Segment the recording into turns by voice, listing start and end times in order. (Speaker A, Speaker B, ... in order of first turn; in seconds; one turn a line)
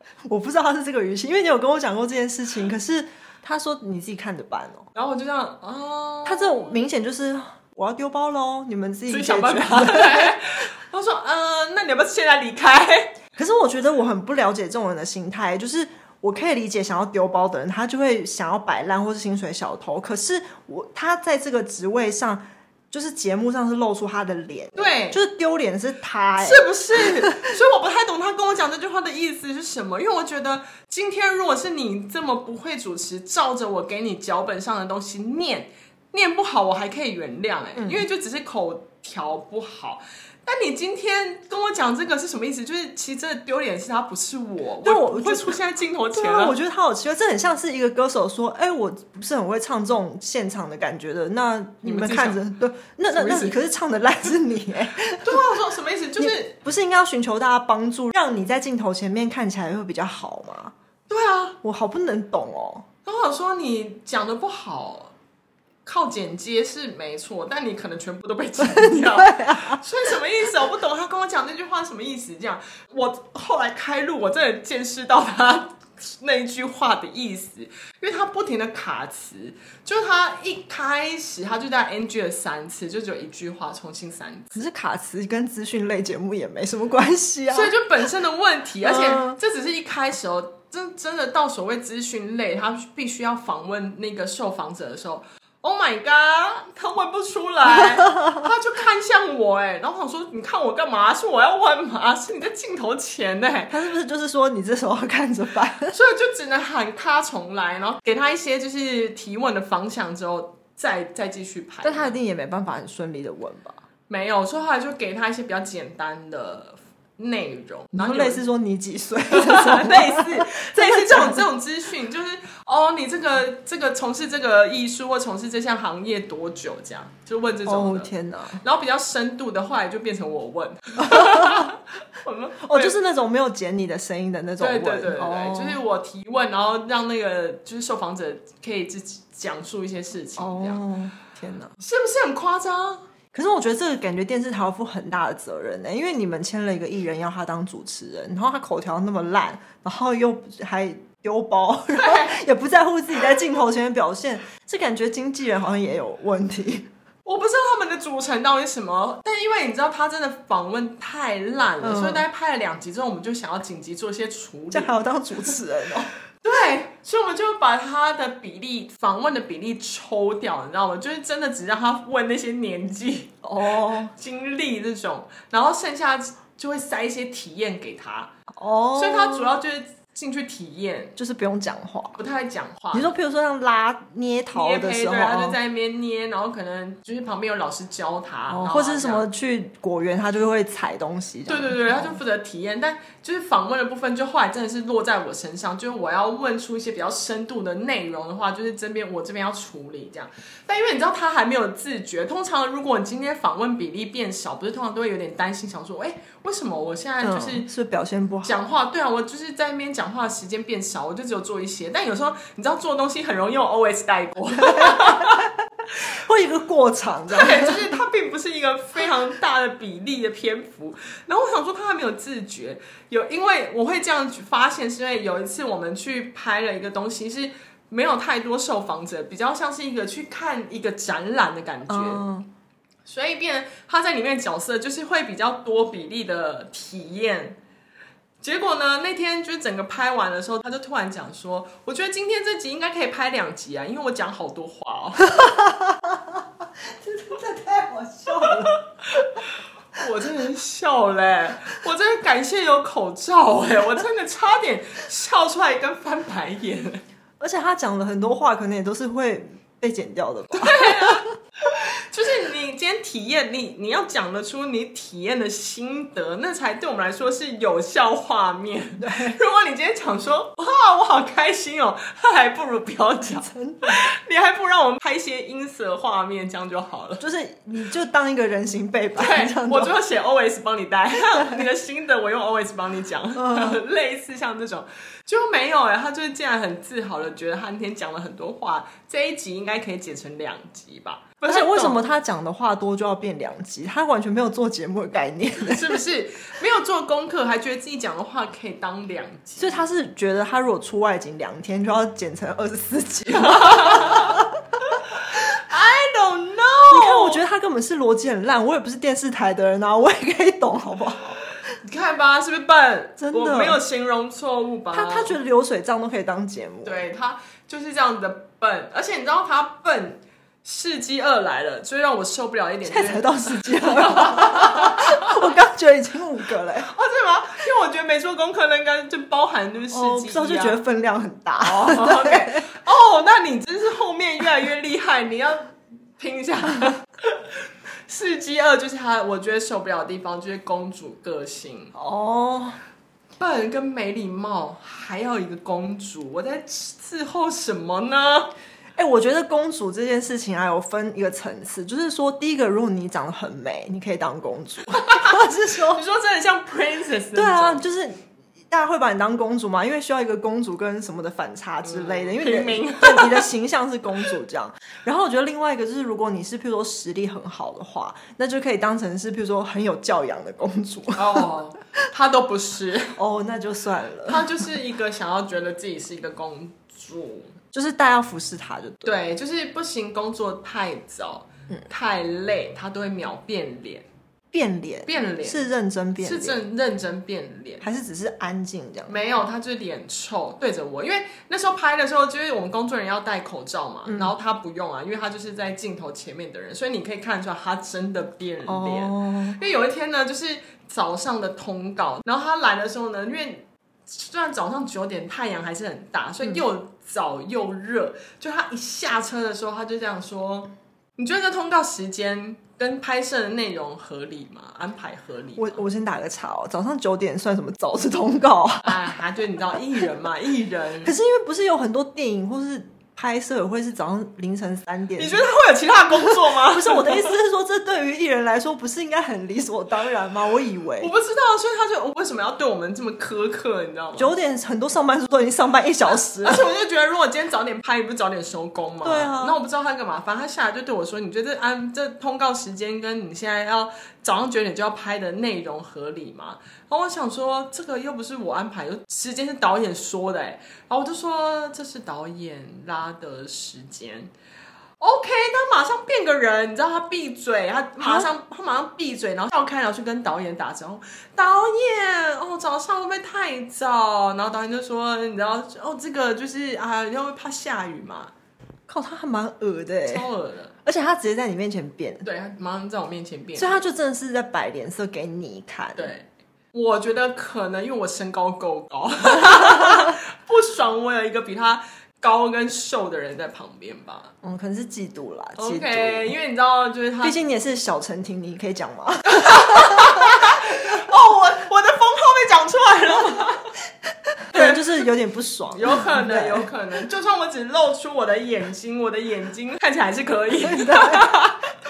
Speaker A: 0.3-4.9
Speaker B: 4.9-6.8
Speaker A: 6.2-10.3
Speaker B: 9.1-13.1
Speaker A: 13.3-27.5
Speaker B: 24.8-25.2
Speaker B: 26.4-46.6
Speaker A: 37.8-38.0
Speaker A: 44.8-45.6
Speaker A: 46.1-55.4
Speaker B: 51.8-52.4
Speaker B: 53.1-53.6
Speaker B: 55.2-56.5
Speaker A: 56.2-60.7
Speaker B: 61.1-61.6
Speaker A: 61.6-62.8
Speaker B: 63.0-65.1
Speaker B: 65.8-84.6
Speaker A: 68.6-69.8
Speaker A: 84.5-87.7
Speaker B: 87.5-103.7
Speaker A: 88.8-89.4
Speaker A: 98.2-98.5
Speaker A: 103.7-105.9
Speaker B: 105.9-112.2
Speaker A: 111.8-113.8
Speaker B: 114.1-118.4
Speaker A: 117.9-121.4
Speaker B: 119.3-128.1
Speaker A: 127.7-128.6
Speaker B: 128.6-132.9
Speaker A: 131.0-131.7
Speaker A: 132.6-135.8
Speaker B: 134.6-140.8
Speaker A: 140.4-141.7
Speaker B: 141.8-143.0
Speaker A: 143.3-156.9
Speaker B: 151.9-152.3
Speaker B: 157.2-164.9
Speaker A: 161.8-162.2
Speaker A: 164.7-166.1
Speaker B: 166.4-173.3
Speaker A: 173.4-174.1
Speaker B: 174.1-178.3
Speaker A: 178.5-179.6
Speaker B: 178.9-181.1
Speaker A: 181.2-182.2
Speaker B: 182.2-183.1
Speaker A: 182.9-185.6
Speaker B: 184.5-189.3
Speaker A: 188.5-192.2
Speaker B: 191.5-207.7
Speaker A: 207.2-208.6
Speaker B: 208.4-215.4
Speaker A: 214.6-217.9
Speaker B: 217.3-232.2
Speaker A: 231.9-232.5
Speaker B: 233.1-237.6
Speaker B: 238.4-245.3
Speaker A: 245.4-248.8
Speaker B: 249.1-257.0
Speaker A: 257.4-261.3
Speaker B: 260.5-277.2
Speaker A: 269.0-269.4
Speaker A: 273.4-274.0
Speaker A: 277.2-279.9
Speaker B: 279.1-292.0
Speaker A: 281.3-281.6
Speaker A: 283.4-283.8
Speaker A: 291.5-296.0
Speaker B: 295.6-299.8
Speaker A: 299.6-304.5
Speaker B: 303.4-304.4
Speaker B: 305.3-307.4
Speaker A: 306.9-311.4
Speaker B: 311.8-315.3
Speaker A: 313.2-313.8
Speaker A: 314.9-317.0
Speaker B: 316.8-325.5
Speaker A: 322.9-326.9
Speaker B: 326.8-330.8
Speaker A: 329.9-332.6
Speaker B: 331.6-341.9
Speaker A: 341.9-342.8
Speaker B: 343.4-348.5
Speaker A: 348.9-356.0
Speaker B: 354.9-355.4
Speaker B: 355.9-357.8
Speaker A: 357.3-358.2
Speaker A: 358.7-371.5
Speaker B: 361.8-363.5
Speaker B: 371.1-373.1
Speaker A: 373.1-374.6
Speaker B: 374.3-377.5
Speaker A: 377.7-379.2
Speaker B: 379.0-384.1
Speaker A: 384.5-386.6
Speaker B: 385.1-385.6
Speaker B: 386.2-387.8
Speaker A: 387.8-389.1
Speaker B: 389.1-415.8
Speaker A: 398.7-399.6
Speaker A: 415.6-419.1
Speaker B: 418.8-421.1
Speaker A: 421.0-425.4
Speaker B: 425.2-427.3
Speaker A: 426.6-431.1
Speaker B: 431.0-434.3
Speaker A: 434.1-436.6
Speaker B: 436.1-454.3
Speaker A: 439.0-439.6
Speaker B: 455.0-468.3
Speaker A: 458.0-458.3
Speaker A: 468.9-470.3
Speaker B: 470.1-470.7
Speaker A: 470.8-472.2
Speaker B: 472.2-473.8
Speaker A: 473.6-476.1
Speaker B: 475.9-484.3
Speaker A: 484.4-486.3
Speaker B: 485.6-487.4
Speaker A: 487.2-490.5
Speaker B: 489.3-493.7
Speaker A: 494.5-496.7
Speaker B: 494.5-495.1
Speaker B: 495.7-501.7
Speaker A: 500.6-501.3